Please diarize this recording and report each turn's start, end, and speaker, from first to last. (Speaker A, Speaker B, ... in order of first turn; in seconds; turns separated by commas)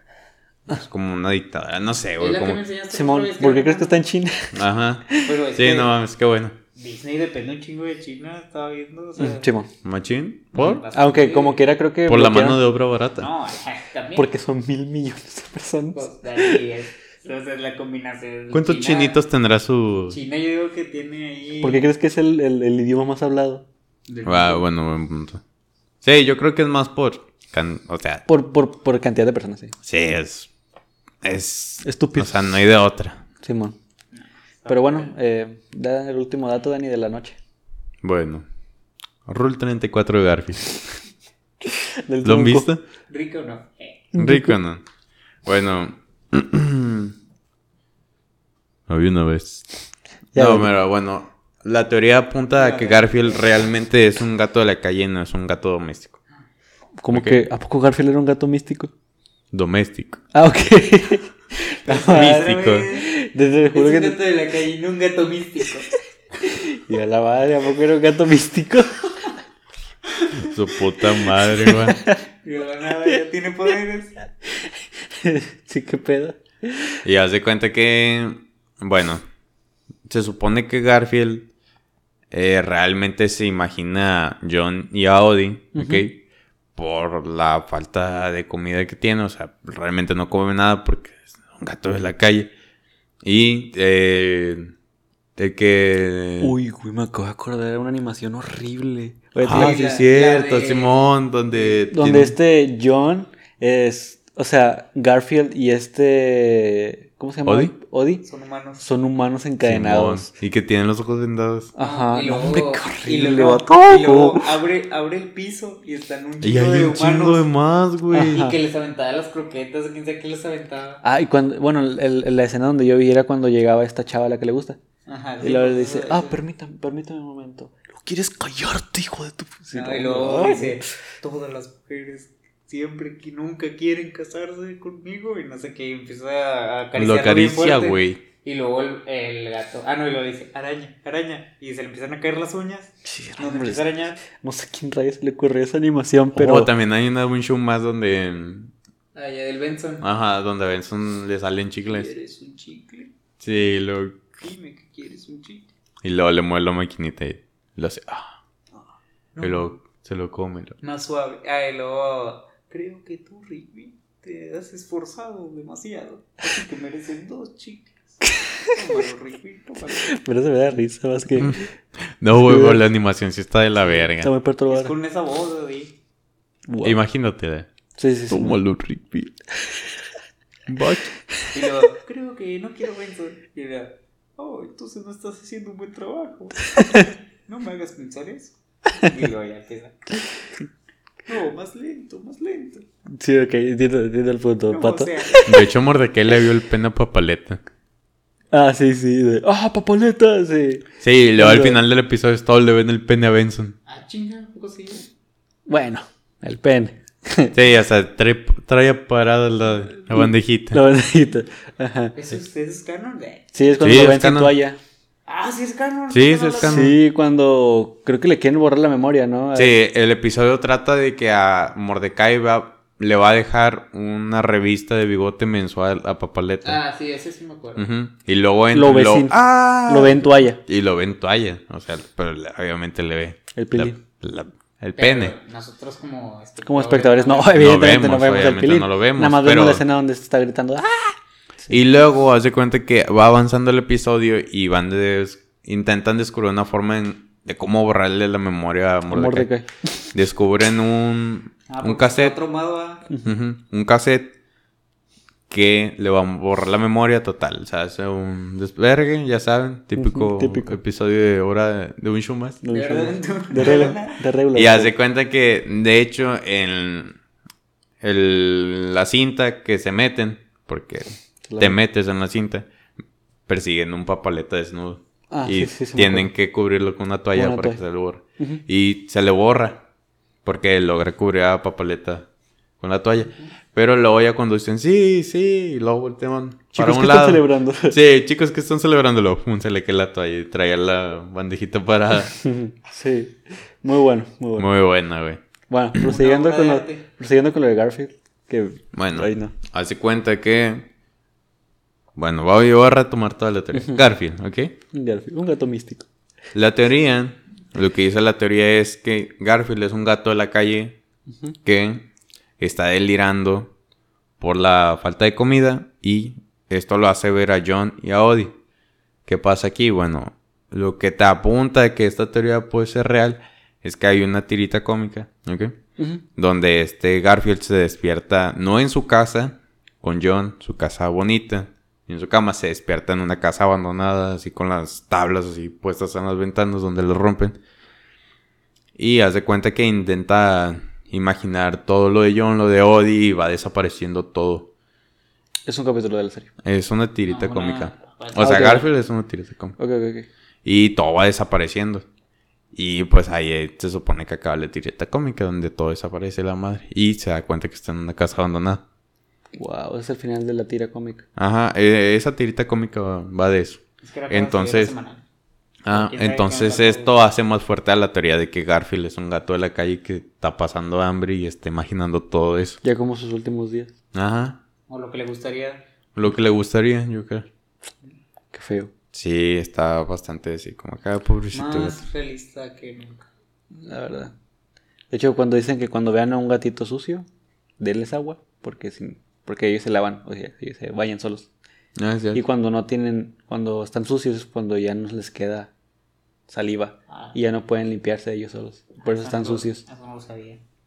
Speaker A: 0.7-2.6, Speaker B: 2.2-4.0, Speaker C: 2.9-4.5, Speaker A: 4.5-6.5, Speaker B: 5.2-5.9, Speaker B: 6.8-9.5, Speaker C: 9.2-9.7, Speaker A: 9.8-10.8, Speaker B: 10.5-11.7, Speaker C: 10.9-12.6, Speaker A: 12.1-13.3, Speaker B: 13.2-14.3, Speaker C: 14.2-16.6, Speaker B: 15.9-19.2, Speaker A: 18.5-20.2, Speaker B: 20.1-21.9, Speaker C: 21.6-23.7, Speaker B: 24.1-24.6, Speaker A: 24.2-25.4, Speaker A: 26.0-28.3, Speaker C: 28.3-29.7, Speaker A: 29.8-30.5, Speaker A: 31.2-33.3, Speaker C: 31.8-32.5, Speaker C: 33.4-33.8, Speaker B: 34.1-35.1, Speaker C: 34.7-37.4, Speaker A: 38.0-38.5, Speaker A: 39.3-41.0, Speaker C: 41.6-42.7, Speaker A: 42.2-42.8, Speaker B: 43.1-44.1, Speaker C: 44.1-44.6, Speaker A: 44.2-44.8, Speaker A: 45.5-47.1, Speaker A: 48.9-49.7, Speaker A: 50.3-56.2, Speaker C: 50.4-50.7, Speaker B: 52.5-53.5, Speaker C: 57.0-58.9, Speaker A: 57.1-57.4, Speaker A: 59.5-60.2, Speaker C: 60.3-64.2, Speaker B: 61.9-63.1, Speaker A: 62.1-62.9, Speaker B: 63.7-65.9, Speaker C: 66.4-69.2, Speaker A: 70.3-72.0, Speaker C: 71.4-72.2, Speaker B: 72.4-74.2, Speaker C: 74.6-77.0, Speaker A: 77.0-79.2, Speaker A: 80.1-81.5, Speaker A: 82.3-86.2, Speaker C: 85.7-86.1, Speaker A: 86.8-92.5, Speaker A: 93.2-94.7, Speaker A: 95.4-96.5, Speaker C: 96.4-100.0, Speaker A: 99.4-102.3, Speaker B: 99.5-101.0, Speaker C: 101.9-108.2, Speaker A: 107.5-107.7, Speaker B: 108.2-108.8, Speaker C: 108.8-110.3, Speaker A: 109.6-111.7, Speaker C: 111.8-114.5, Speaker B: 111.8-121.0, Speaker A: 116.4-118.5, Speaker C: 118.3-118.6, Speaker C: 121.0-124.8, Speaker B: 125.1-126.4, Speaker C: 125.4-130.8, Speaker B: 129.7-144.2, Speaker A: 137.0-138.2, Speaker C: 143.1-146.7, Speaker A: 146.3-148.7, Speaker B: 149.2-150.1, Speaker A: 150.0-152.1, Speaker B: 151.9-153.1, Speaker A: 153.4-154.4, Speaker B: 154.4-155.7, Speaker A: 156.0-158.3, Speaker B: 158.7-159.8, Speaker A: 159.4-160.8, Speaker B: 160.8-170.2, Speaker C: 170.0-171.7, Speaker A: 171.4-171.6, Speaker A: 172.2-174.3, Speaker C: 172.4-172.8, Speaker C: 174.2-174.9, Speaker B: 174.7-176.0, Speaker C: 176.7-177.0, Speaker A: 176.8-177.7, Speaker C: 178.0-178.6, Speaker A: 178.3-179.3, Speaker A: 180.7-181.1, Speaker B: 181.5-190.2, Speaker B: 191.3-192.9, Speaker C: 193.1-195.7, Speaker B: 194.7-195.4, Speaker A: 195.4-197.6, Speaker C: 198.5-200.9, Speaker A: 201.0-203.8, Speaker C: 201.4-201.8, Speaker B: 203.9-205.1, Speaker C: 205.7-207.6, Speaker A: 207.5-210.8, Speaker C: 210.1-212.2, Speaker B: 212.2-213.8, Speaker C: 213.5-214.8, Speaker A: 213.8-214.5, Speaker B: 215.3-216.8, Speaker A: 216.1-217.0, Speaker C: 216.6-219.8, Speaker A: 219.6-226.8, Speaker B: 226.6-227.8, Speaker A: 227.8-235.3, Speaker C: 228.7-230.6, Speaker C: 233.6-234.0, Speaker B: 235.0-237.7, Speaker C: 236.6-241.8, Speaker A: 237.6-239.8, Speaker A: 241.7-249.5, Speaker C: 249.1-249.7, Speaker A: 250.1-252.4, Speaker B: 251.7-253.1, Speaker C: 253.1-253.3, Speaker A: 253.2-254.3, Speaker A: 255.5-262.6, Speaker C: 260.0-260.8, Speaker C: 262.6-264.9, Speaker B: 262.7-264.2, Speaker A: 264.5-267.2, Speaker A: 268.0-272.7, Speaker C: 271.4-271.8, Speaker A: 273.5-279.8, Speaker C: 275.3-276.3, Speaker C: 277.4-277.8, Speaker A: 280.4-282.3, Speaker A: 282.8-292.4, Speaker C: 286.8-288.0, Speaker C: 292.3-294.7, Speaker A: 294.6-295.4, Speaker C: 295.7-299.5, Speaker B: 296.0-297.1, Speaker A: 298.9-300.9, Speaker A: 302.2-304.8, Speaker C: 303.7-304.1, Speaker C: 304.9-306.1, Speaker A: 306.5-311.0, Speaker A: 311.6-313.7, Speaker A: 314.4-318.5, Speaker A: 319.3-325.8, Speaker C: 326.0-326.2, Speaker A: 326.4-337.6, Speaker A: 339.0-344.7, Speaker C: 345.6-346.5, Speaker A: 346.6-349.8, Speaker B: 347.3-348.7, Speaker C: 348.4-348.9, Speaker C: 349.8-350.3, Speaker A: 350.6-352.1, Speaker A: 352.7-358.8, Speaker C: 359.5-361.2, Speaker A: 361.4-364.9, Speaker B: 364.0-365.2, Speaker A: 365.9-372.8, Speaker B: 365.9-367.1, Speaker C: 372.8-373.9, Speaker A: 374.1-374.6, Speaker B: 374.9-375.8, Speaker A: 376.2-377.5, Speaker C: 378.5-378.9, Speaker A: 379.1-382.0, Speaker B: 381.5-383.3, Speaker C: 383.7-384.3, Speaker C: 385.1-387.3, Speaker C: 387.8-391.5, Speaker A: 392.0-392.4, Speaker C: 392.3-395.7, Speaker C: 396.5-399.8, Speaker B: 397.1-397.4, Speaker B: 399.0-400.6